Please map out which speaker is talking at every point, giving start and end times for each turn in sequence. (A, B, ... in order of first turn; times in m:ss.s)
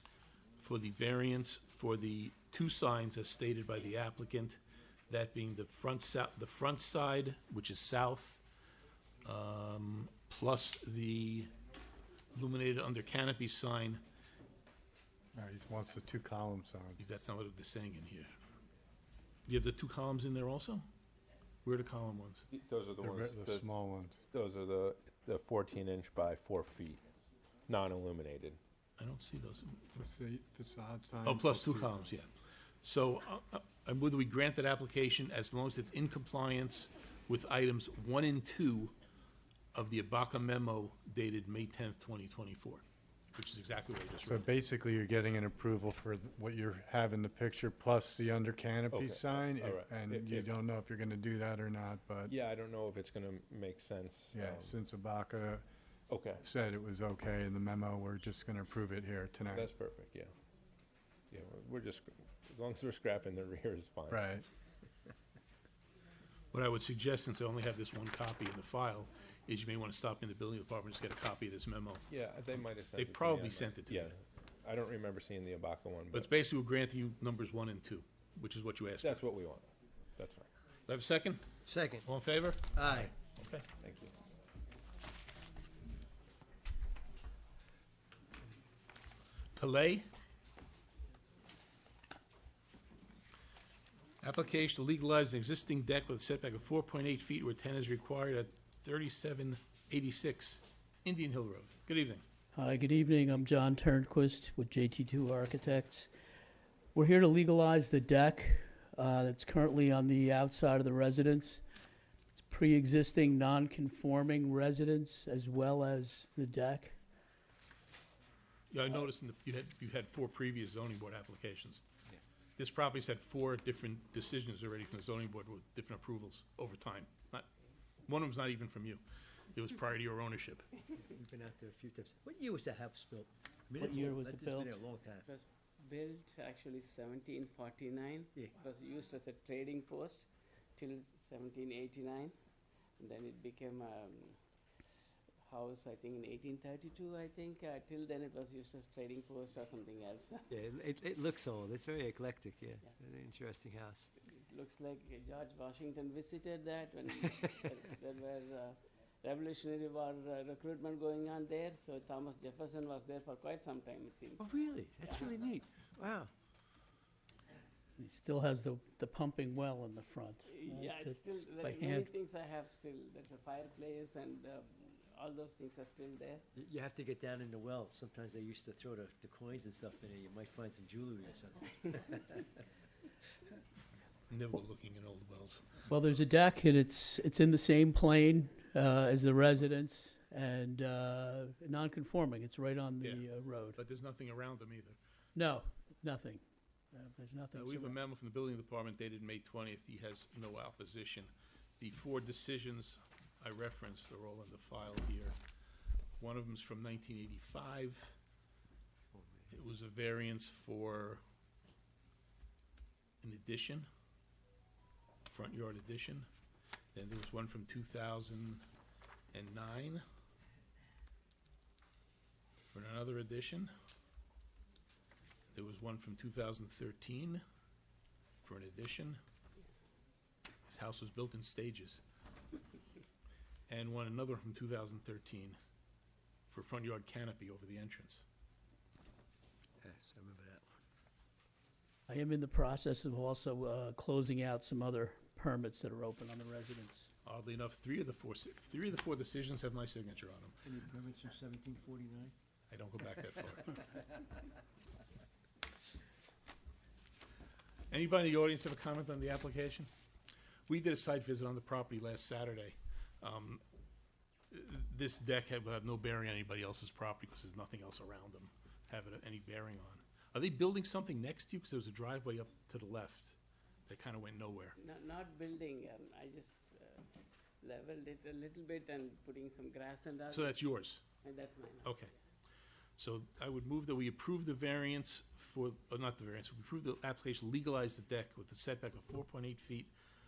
0:00.6-0:08.4 A
0:09.2-0:11.5 A
0:12.3-0:14.0 A
0:15.4-0:17.0 B
0:17.0-0:18.3 A
0:19.5-0:20.8 A
0:21.6-0:22.5 A
0:22.5-0:23.6 C
0:23.0-0:24.2 B
0:24.3-0:27.0 C
0:27.7-0:28.6 C
0:29.0-0:30.0 A
0:29.9-0:32.0 B
0:31.2-0:32.3 A
0:32.8-0:38.9 A
0:39.7-0:42.8 A
0:43.4-0:44.5 A
0:44.2-0:52.3 B
0:48.9-0:50.5 C
0:52.3-0:54.8 C
0:54.3-0:55.6 B
0:56.1-0:56.4 C
0:56.4-0:59.7 B
0:59.5-1:00.3 C
1:01.3-1:04.3 C
1:04.1-1:04.4 B
1:06.5-1:12.1 A
1:12.1-1:16.3 C
1:13.0-1:14.2 A
1:16.1-1:19.2 A
1:19.0-1:20.5 C
1:20.9-1:21.4 A
1:21.7-1:22.0 D
1:22.0-1:23.7 A
1:22.8-1:23.1 D
1:23.8-1:24.1 C
1:29.6-1:30.1 A
1:34.2-1:42.2 A
1:42.5-1:46.1 E
1:46.9-1:51.6 E
1:52.3-1:57.0 E
1:58.7-2:01.8 A
2:02.6-2:07.5 A
2:08.1-2:09.0 A
2:09.5-2:10.7 A
2:11.0-2:15.3 D
2:13.8-2:14.8 E
2:15.2-2:22.3 F
2:23.0-2:24.4 F
2:25.4-2:30.5 F
2:30.5-2:34.1 D
2:34.2-2:45.4 F
2:44.4-2:46.3 D
2:48.0-2:52.1 E
2:50.4-2:56.4 F
2:56.6-3:02.5 D
3:04.3-3:05.9 A
3:05.9-3:13.8 E
3:13.0-3:15.0 A
3:15.4-3:18.0 E
3:17.6-3:25.4 A
3:26.2-3:28.2 A
3:29.1-3:29.6 D
3:29.5-3:31.2 A
3:33.2-3:33.9 A
3:35.3-3:36.3 A
3:36.9-3:38.6 A
3:39.3-3:40.0 A
3:42.7-3:43.7 A
3:45.5-3:47.4 A
3:48.4-3:49.2 A
3:50.7-3:52.0 A
3:53.7-3:55.6 A
3:56.5-3:58.2 A
3:59.8-4:00.8 D
4:02.1-4:07.1 E
4:07.2-4:10.6 A
4:10.6-4:12.3 D
4:12.7-4:13.8 A
4:17.9-4:19.9 A
4:20.7-4:23.6 A
4:24.5-4:33.4 A
4:33.9-4:34.8 A
4:34.8-4:37.1 F
4:37.6-4:40.6 F
4:40.3-4:41.0 A
4:41.2-4:42.0 F
4:41.8-4:42.1 A
4:43.0-4:49.9 A